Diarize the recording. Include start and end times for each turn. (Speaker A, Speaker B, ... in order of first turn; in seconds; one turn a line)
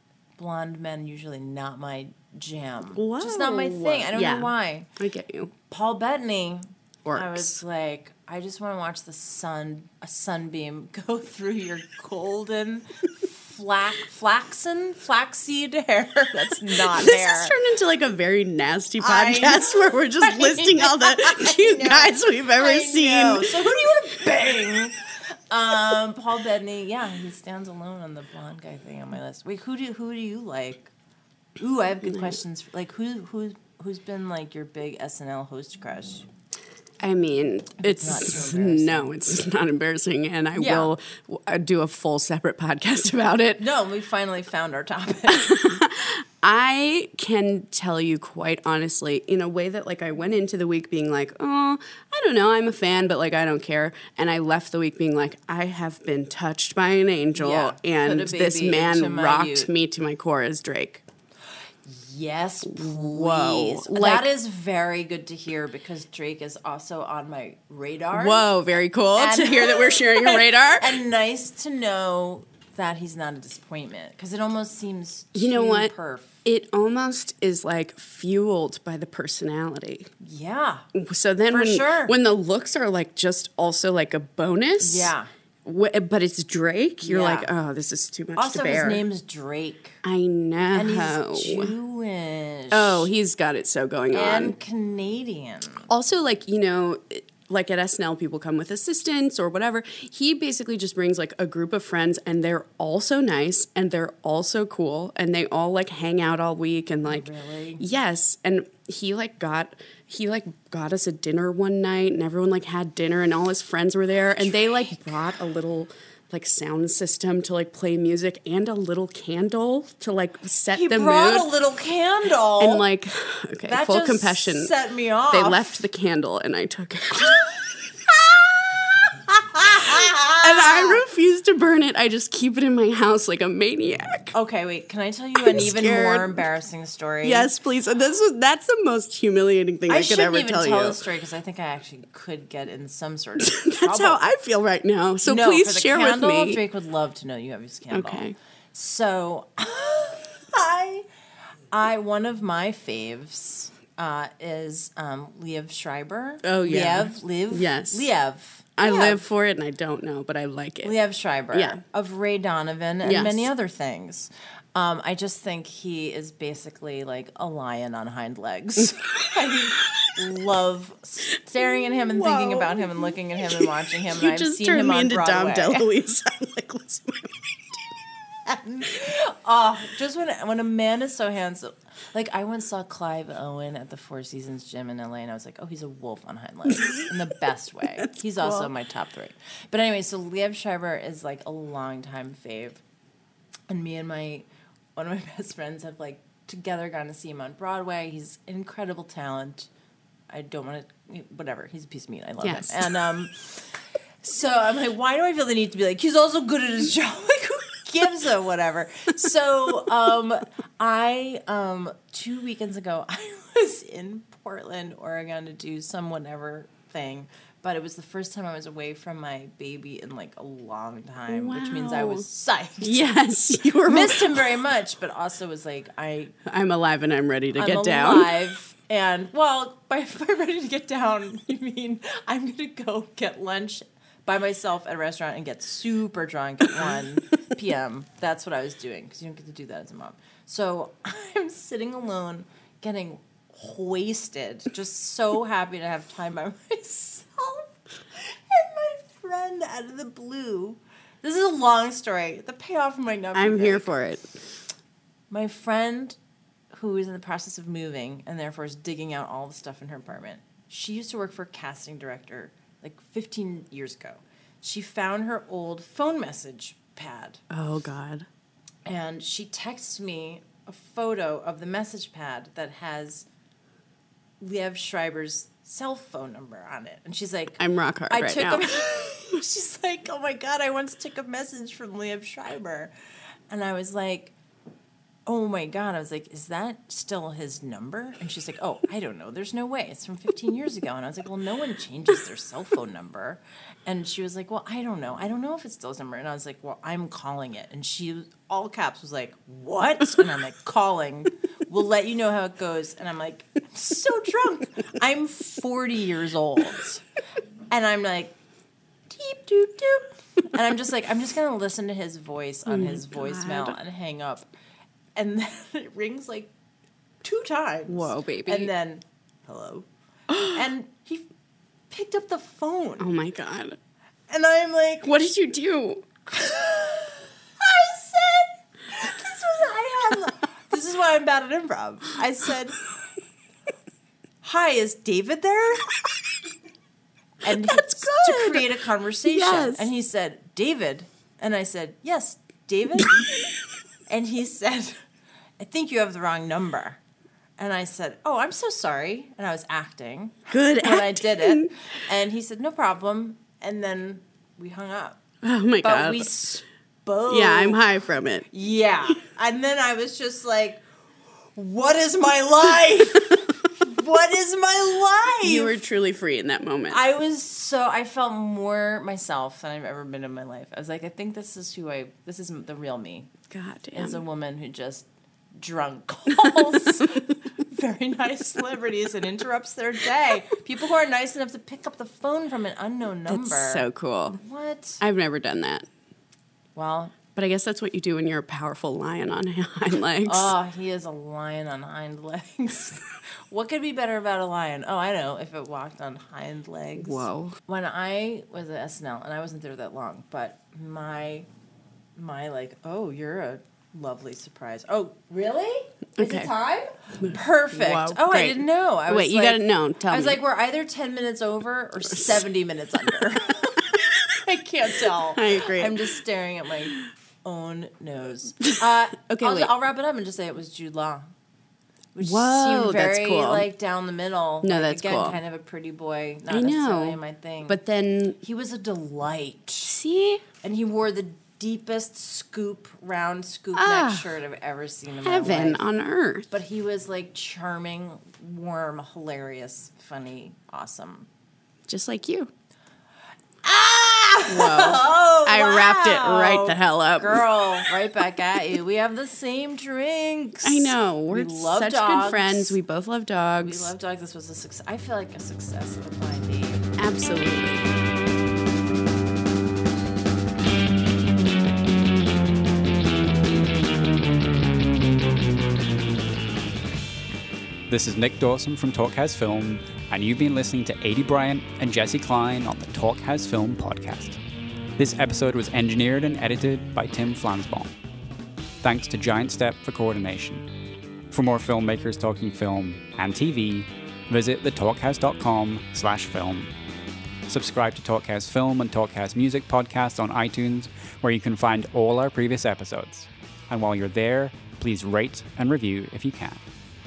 Speaker A: 0.4-4.9
Speaker B: 2.9-5.5
Speaker A: 5.7-17.6
Speaker B: 7.0-7.6
Speaker B: 16.7-23.6
Speaker A: 19.0-25.0
Speaker A: 25.5-30.9
Speaker A: 31.6-36.3
Speaker B: 32.0-32.4
Speaker B: 37.0-43.6
Speaker A: 37.8-39.1
Speaker A: 40.5-40.9
Speaker A: 43.6-45.5
Speaker B: 45.3-61.0
Speaker A: 57.3-59.7
Speaker A: 61.8-68.5
Speaker B: 62.6-64.3
Speaker B: 68.1-70.9
Speaker A: 69.1-76.4
Speaker B: 75.3-75.9
Speaker B: 76.4-80.1
Speaker A: 80.2-80.8
Speaker B: 80.9-85.1
Speaker A: 81.5-82.2
Speaker A: 84.8-85.3
Speaker B: 85.6-89.0
Speaker A: 87.0-87.5
Speaker A: 88.3-90.0
Speaker B: 90.0-91.7
Speaker A: 90.7-93.1
Speaker B: 92.7-94.5
Speaker A: 94.1-95.9
Speaker B: 95.9-121.5
Speaker A: 107.0-107.8
Speaker A: 114.4-115.0
Speaker A: 120.7-122.8
Speaker B: 122.6-124.7
Speaker A: 123.7-125.8
Speaker B: 125.3-127.5
Speaker A: 127.4-131.0
Speaker B: 130.4-134.3
Speaker A: 134.3-137.5
Speaker B: 135.3-136.4
Speaker B: 137.2-141.0
Speaker A: 139.9-144.2
Speaker B: 143.4-146.6
Speaker A: 145.2-151.1
Speaker B: 147.9-148.3
Speaker A: 151.7-159.2
Speaker B: 156.4-158.1
Speaker B: 158.8-160.9
Speaker A: 160.8-175.9
Speaker B: 161.5-161.8
Speaker B: 163.0-163.5
Speaker B: 171.6-177.9
Speaker A: 178.4-192.8
Speaker B: 188.0-188.7
Speaker A: 193.7-199.7
Speaker A: 200.3-203.7
Speaker B: 202.4-202.9
Speaker A: 204.2-223.0
Speaker B: 221.3-222.2
Speaker B: 222.8-224.4
Speaker A: 223.8-226.4
Speaker B: 226.4-228.3
Speaker A: 227.5-253.9
Speaker B: 253.3-254.4
Speaker A: 255.3-256.2
Speaker A: 256.7-267.4
Speaker B: 267.5-268.2
Speaker A: 268.9-273.2
Speaker A: 274.4-282.9
Speaker B: 277.6-278.7
Speaker A: 283.5-284.3
Speaker A: 285.3-307.0
Speaker A: 307.7-308.3
Speaker A: 309.1-314.5
Speaker B: 312.7-313.8
Speaker A: 315.1-316.5
Speaker A: 317.2-321.3
Speaker B: 317.9-318.7
Speaker B: 320.3-320.6
Speaker A: 321.9-323.1
Speaker B: 323.0-323.8
Speaker A: 324.3-325.1
Speaker B: 325.0-326.1
Speaker A: 326.3-332.8
Speaker A: 334.4-335.9
Speaker A: 337.4-343.3
Speaker B: 337.4-339.9
Speaker A: 344.1-345.0
Speaker A: 345.6-347.0
Speaker A: 347.6-355.2
Speaker B: 350.5-351.7
Speaker B: 355.4-356.4
Speaker A: 355.8-357.8
Speaker B: 357.3-358.5
Speaker A: 358.5-360.8
Speaker A: 361.5-365.8
Speaker B: 365.4-367.0
Speaker A: 366.9-373.3
Speaker B: 373.5-374.2
Speaker A: 373.9-383.8
Speaker B: 383.3-384.4
Speaker A: 384.4-385.0
Speaker B: 385.0-385.9
Speaker A: 386.7-387.2
Speaker B: 387.3-390.5
Speaker A: 390.2-401.5
Speaker B: 397.0-397.6
Speaker A: 402.2-421.3
Speaker B: 406.2-406.5
Speaker B: 407.2-410.4
Speaker B: 412.1-412.4
Speaker B: 415.3-416.2
Speaker B: 418.6-419.7
Speaker A: 422.1-427.8
Speaker B: 422.2-423.7
Speaker B: 424.6-425.4
Speaker B: 426.5-428.4
Speaker A: 428.4-429.9
Speaker B: 429.8-430.4
Speaker A: 430.6-435.8
Speaker B: 433.7-434.3
Speaker B: 435.2-436.5
Speaker A: 436.5-441.3
Speaker B: 441.9-442.5
Speaker A: 443.6-452.8
Speaker B: 444.5-447.4
Speaker B: 450.6-453.9
Speaker A: 453.6-456.9
Speaker B: 457.0-457.9
Speaker C: 467.9-474.4
Speaker C: 475.0-477.9
Speaker C: 478.8-480.6
Speaker C: 481.3-486.7
Speaker C: 487.5-496.6